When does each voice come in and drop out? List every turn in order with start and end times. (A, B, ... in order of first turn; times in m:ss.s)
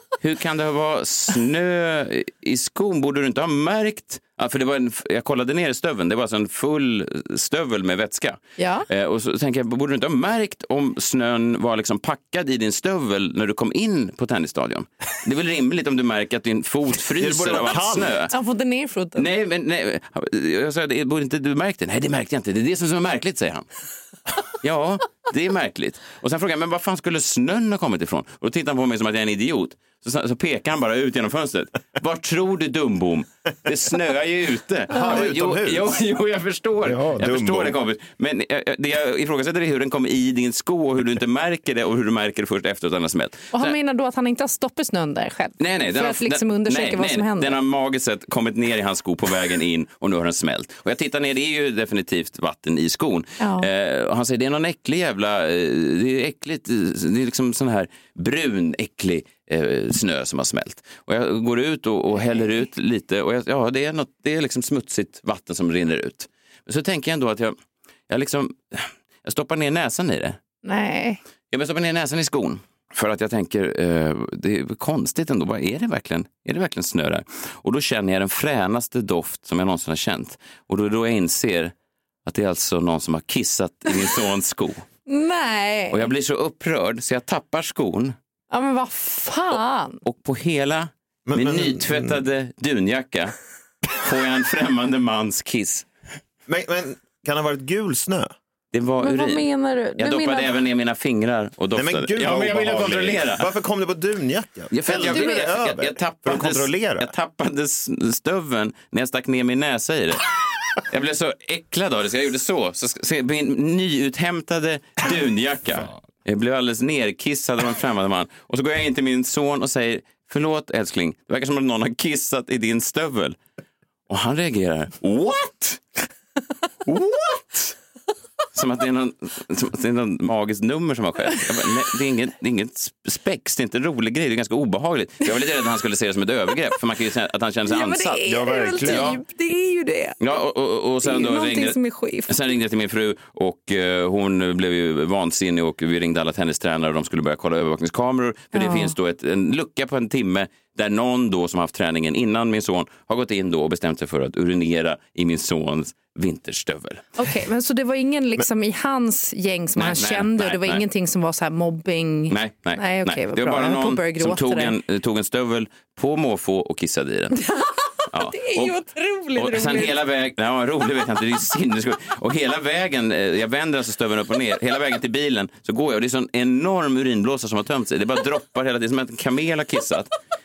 0:00.2-0:18.3 A
0:08.6-0:08.9 B
0:17.2-0:18.2 C
0:18.3-0:19.2 B
0:19.2-0:23.7 A
0:24.6-0:43.8 A
0:34.9-0:35.9 C
0:36.8-0:37.8 C
0:43.5-0:47.6 B
0:45.6-1:07.6 A
0:53.4-0:53.7 B
1:08.1-1:10.4 A
1:10.6-1:11.2 B
1:11.5-1:21.7 A
1:22.3-1:24.8 A
1:25.1-1:26.0 B
1:25.9-1:28.2 A
1:28.5-1:30.0 B
1:30.0-1:33.3 A
1:31.3-1:32.2 C
1:33.9-1:35.9 A
1:36.5-1:38.3 C
1:38.7-1:39.4 A
1:39.0-1:40.6 B
1:40.0-1:43.5 A
1:41.8-1:47.1 C
1:44.7-1:50.2 A
1:45.0-1:45.4 B
1:50.8-2:03.4 A
2:04.1-2:05.8 A
2:06.9-2:07.4 C
2:08.5-2:18.3 A
2:17.7-2:20.2 B
2:18.3-2:19.1 C
2:18.8-2:19.2 A
2:20.2-2:37.1 A
2:21.0-2:22.4 B
2:28.5-2:29.0 B
2:37.2-2:44.8 B
2:39.8-2:40.8 A
2:42.3-2:47.4 A
2:47.4-2:50.0 B
2:48.1-2:48.8 A
2:49.4-3:00.1 A